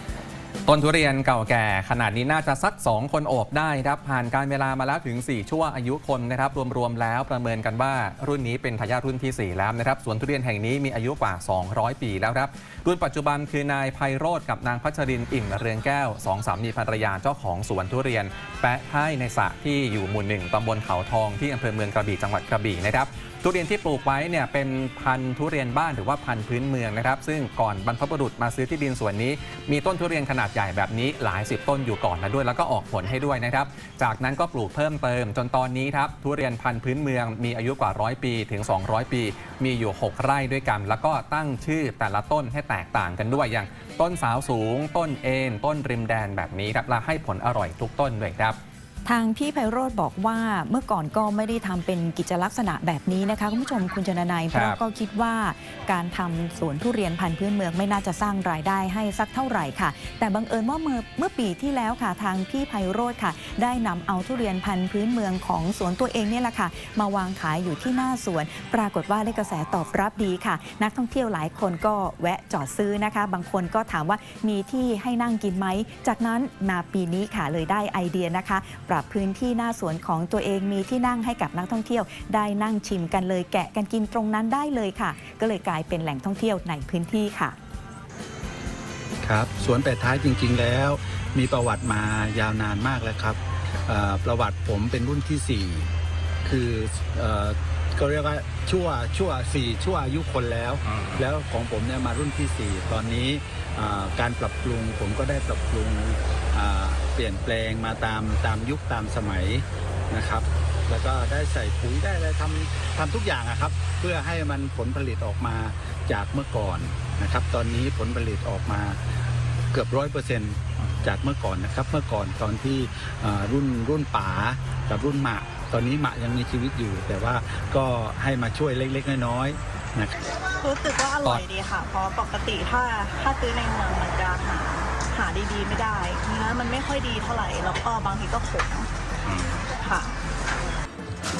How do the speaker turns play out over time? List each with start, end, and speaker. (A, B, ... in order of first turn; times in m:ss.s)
0:00.7-0:48.6 A
0:49.0-1:27.6 B
0:54.5-0:54.8 A
1:29.2-1:35.9 C
1:36.4-1:59.0 C
1:40.9-1:41.2 A
1:59.7-2:10.1 C
2:10.6-2:18.9 D
2:19.7-2:20.1 D